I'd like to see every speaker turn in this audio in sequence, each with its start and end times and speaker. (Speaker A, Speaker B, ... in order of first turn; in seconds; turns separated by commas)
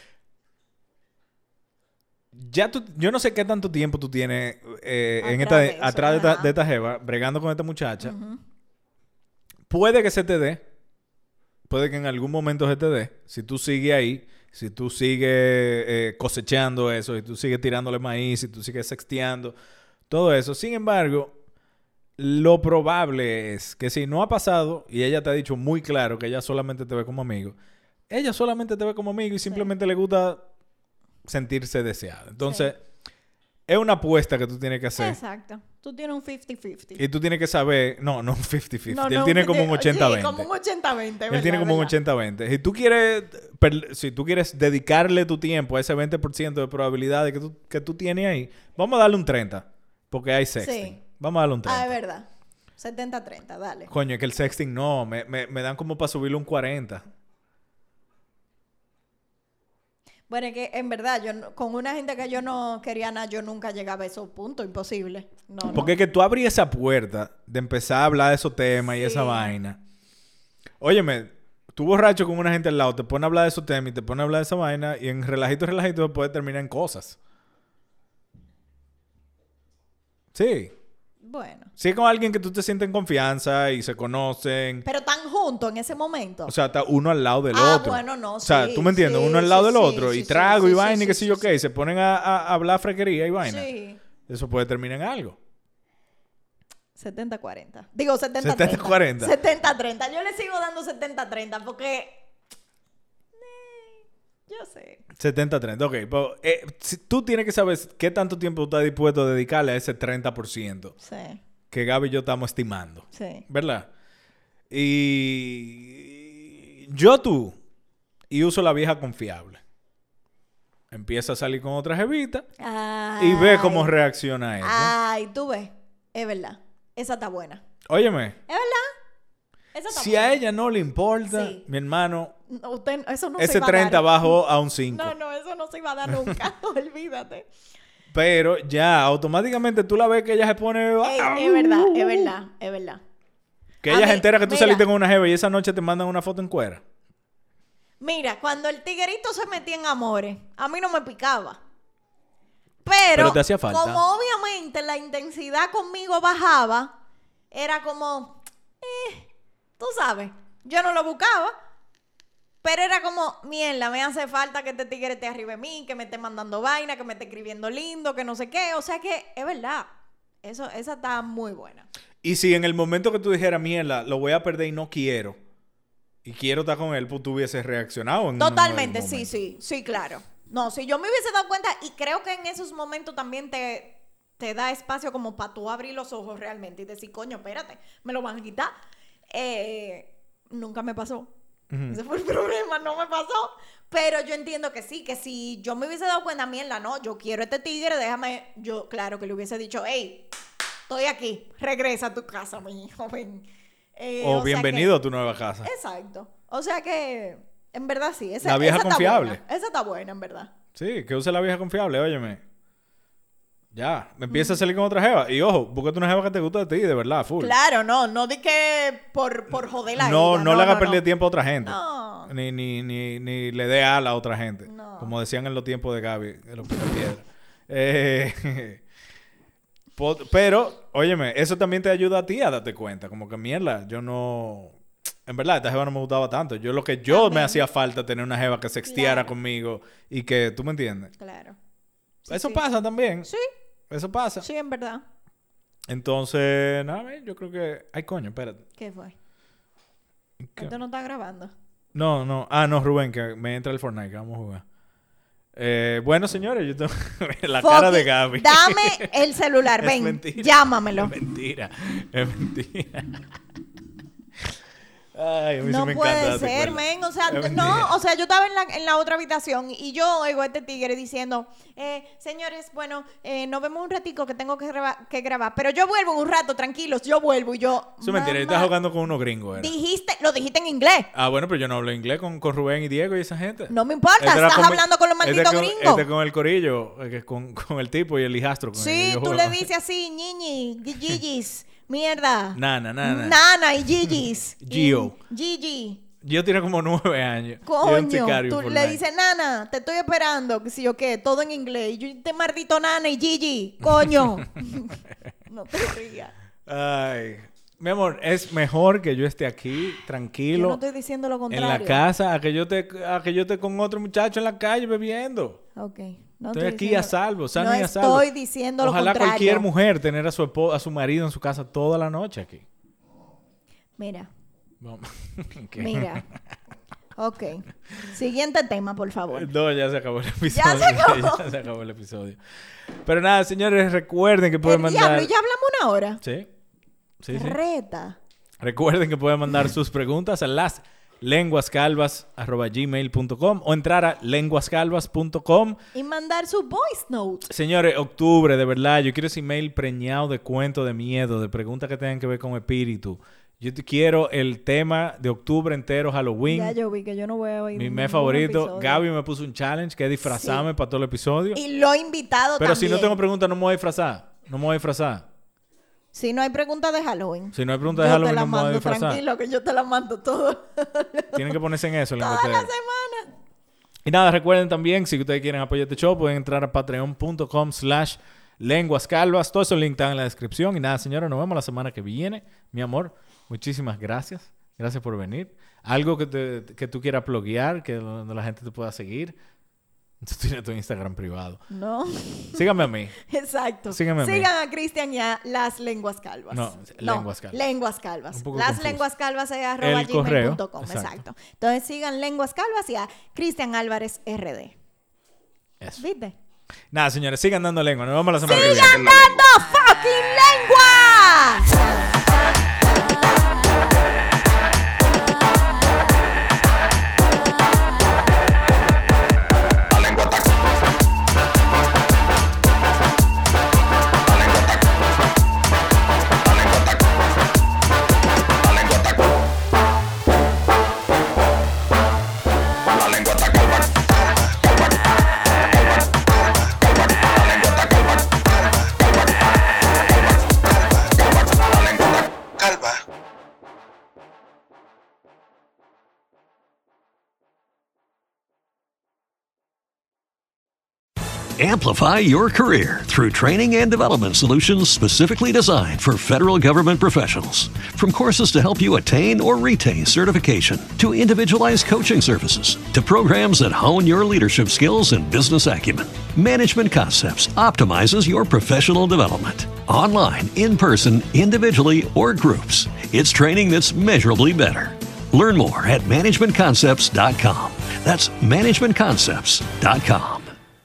Speaker A: 2.3-8.1, Speaker B: 5.2-6.5, Speaker B: 8.0-8.4, Speaker A: 9.7-10.6, Speaker A: 11.7-19.6, Speaker A: 20.1-21.3, Speaker A: 22.2-27.6, Speaker A: 28.1-30.4, Speaker A: 31.3-32.8, Speaker B: 32.4-32.7, Speaker A: 33.7-35.2, Speaker B: 35.0-37.0, Speaker A: 37.0-40.5, Speaker B: 38.9-41.9, Speaker A: 41.3-51.9, Speaker B: 50.6-51.0, Speaker B: 51.6-53.9, Speaker A: 53.9-57.0, Speaker B: 60.3-65.9, Speaker A: 65.7-69.8, Speaker B: 69.0-69.5, Speaker A: 70.8-77.2, Speaker A: 80.3-80.7, Speaker B: 81.2-81.7, Speaker A: 81.8-84.8, Speaker B: 84.8-86.5, Speaker A: 86.5-93.7, Speaker B: 87.5-91.5, Speaker B: 93.4-94.0, Speaker A: 94.3-95.3, Speaker B: 97.0-102.2, Speaker A: 98.4-99.3, Speaker B: 103.3-105.0, Speaker A: 105.2-111.0, Speaker B: 111.0-111.4, Speaker A: 111.7-113.9, Speaker B: 113.1-113.4, Speaker A: 114.7-117.5, Speaker A: 118.3-119.6, Speaker A: 120.9-122.5, Speaker B: 122.6-123.9, Speaker A: 123.2-124.9, Speaker B: 124.6-127.6, Speaker A: 127.9-128.4, Speaker B: 128.5-128.9, Speaker B: 129.7-130.4, Speaker A: 129.9-132.3, Speaker B: 131.3-131.6, Speaker B: 132.5-134.4, Speaker A: 133.4-135.1, Speaker B: 134.9-137.4, Speaker A: 138.1-142.3, Speaker B: 141.0-143.0, Speaker A: 143.8-146.8, Speaker B: 143.9-144.8, Speaker B: 148.0-151.6, Speaker B: 152.8-156.9, Speaker A: 153.1-154.0, Speaker B: 157.5-161.5, Speaker B: 162.6-169.9, Speaker B: 170.4-171.9, Speaker A: 172.2-175.4, Speaker A: 176.2-179.3, Speaker B: 178.4-188.7, Speaker B: 189.3-191.3, Speaker A: 191.7-192.0, Speaker B: 191.9-200.3, Speaker B: 200.9-204.9, Speaker A: 204.2-205.7, Speaker B: 205.6-210.5, Speaker A: 208.4-209.4, Speaker A: 210.8-212.4, Speaker A: 213.7-217.6, Speaker B: 214.3-214.6, Speaker B: 217.4-221.0, Speaker A: 219.9-221.8, Speaker B: 221.6-222.3, Speaker A: 222.3-228.8, Speaker B: 224.7-225.1, Speaker A: 230.0-234.7, Speaker A: 235.3-241.1, Speaker B: 237.1-237.6, Speaker B: 238.9-239.3, Speaker B: 241.2-241.6, Speaker B: 242.2-242.6, Speaker A: 242.3-243.3, Speaker B: 243.2-243.5, Speaker A: 243.9-244.4, Speaker B: 244.4-245.0, Speaker A: 245.9-248.6, Speaker B: 248.8-249.1, Speaker A: 250.4-250.7, Speaker B: 250.6-251.5, Speaker A: 251.9-254.6, Speaker A: 255.6-259.1, Speaker B: 257.6-261.1, Speaker A: 259.8-263.2, Speaker A: 265.1-267.9, Speaker B: 265.6-278.7, Speaker A: 278.0-279.7, Speaker B: 279.6-281.1, Speaker A: 281.1-289.7, Speaker B: 283.7-286.1, Speaker B: 288.7-296.0, Speaker A: 292.5-293.4, Speaker A: 294.1-295.1, Speaker A: 296.2-299.0, Speaker B: 297.6-305.0, Speaker A: 303.9-304.3, Speaker B: 305.5-306.3, Speaker A: 306.7-310.8, Speaker B: 310.5-312.0, Speaker A: 311.5-315.6, Speaker B: 315.8-319.7, Speaker A: 316.5-318.3, Speaker A: 318.8-322.6, Speaker B: 324.0-324.3, Speaker A: 324.8-326.2, Speaker B: 325.8-326.2, Speaker B: 327.2-329.5, Speaker A: 329.3-332.4, Speaker B: 330.5-331.4, Speaker A: 333.0-335.3, Speaker B: 334.6-336.2, Speaker A: 336.2-336.5, Speaker A: 337.2-337.6, Speaker B: 337.3-338.2, Speaker A: 338.6-345.8, Speaker B: 345.9-347.5, Speaker A: 347.5-356.8, Speaker B: 356.4-359.0, Speaker A: 357.7-361.6, Speaker B: 360.2-360.6, Speaker B: 361.5-363.2, Speaker A: 362.6-365.2, Speaker B: 366.1-371.6, Speaker A: 367.5-369.2, Speaker A: 371.3-372.7, Speaker B: 372.2-373.2, Speaker A: 374.0-389.3, Speaker A: 390.2-391.6, Speaker B: 391.7-392.6, Speaker A: 392.5-393.2, Speaker B: 393.2-404.7, Speaker A: 393.9-394.5, Speaker A: 396.5-397.6, Speaker A: 398.3-399.0, Speaker A: 399.8-401.2, Speaker B: 406.0-406.3, Speaker A: 406.9-409.3, Speaker B: 408.4-412.4, Speaker C: 451.6-480.5